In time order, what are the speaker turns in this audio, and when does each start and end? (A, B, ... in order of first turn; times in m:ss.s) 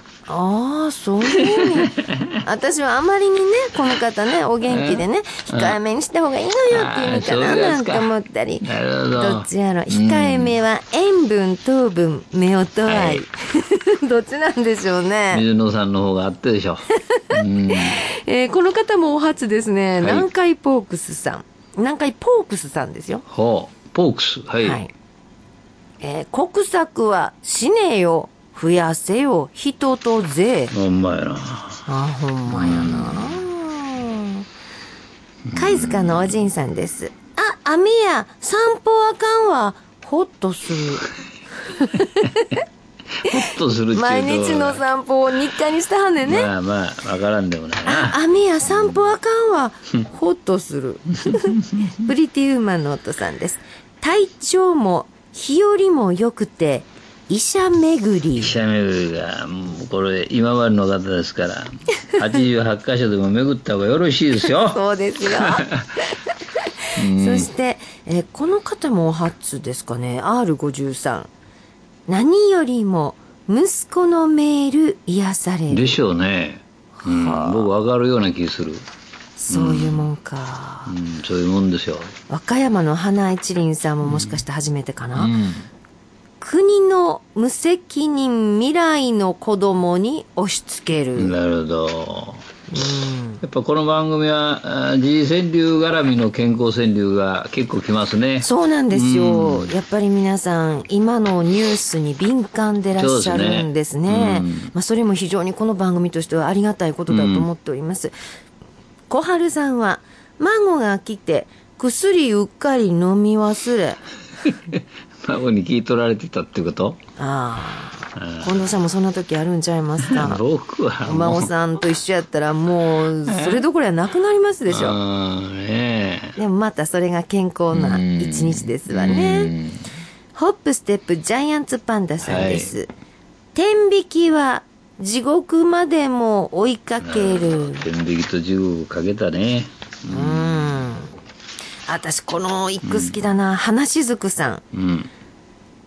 0:00.3-0:15.4 A
0:01.3-0:02.4 B
0:04.6-0:05.8 B
0:06.7-0:10.6 B
0:12.8-0:13.2 B
0:15.3-0:18.0 B
0:17.2-0:23.2 A
0:20.0-0:20.3 B
0:23.3-0:24.8 B
0:24.6-0:24.9 A
0:26.0-0:30.7 A
0:30.7-0:31.8 B
0:31.8-0:34.4 A
0:32.5-0:33.4 B
0:35.5-0:36.3 B
0:35.5-0:41.1 A
0:41.6-0:42.6 A
0:43.2-0:44.8 B
0:43.9-0:46.5 A
0:46.2-0:48.2 B
0:47.8-0:58.6 A
0:51.2-0:51.9 B
0:58.4-1:04.8 B
1:04.6-1:05.7 A
1:05.5-1:05.8 B
1:07.0-1:07.5 B
1:07.1-1:11.3 A
1:12.1-1:16.0 A
1:15.7-1:18.8 B
1:17.0-1:17.7 A
1:19.4-1:20.9 A
1:19.5-1:20.1 B
1:20.9-1:22.2 B
1:22.3-1:25.3 A
1:24.0-1:24.4 B
1:25.2-1:25.7 B
1:26.4-1:31.3 A
1:31.2-1:32.4 B
1:32.7-1:33.4 A
1:33.4-1:39.7 B
1:38.4-1:48.1 A
1:43.0-1:44.7 B
1:47.1-1:47.5 B
1:49.1-1:54.0 A
1:54.5-1:57.0 B
1:57.2-2:00.4 A
1:58.2-1:58.6 B
2:00.0-2:01.5 B
2:01.0-2:05.0 A
2:03.2-2:03.6 B
2:04.7-2:06.4 B
2:06.4-2:09.5 A
2:07.7-2:09.8 B
2:10.3-2:12.9 A
2:12.2-2:12.7 B
2:13.5-2:17.8 A
2:17.0-2:20.8 B
2:20.1-2:21.1 A
2:21.9-2:24.6 A
2:22.8-2:23.2 B
2:24.7-2:25.1 B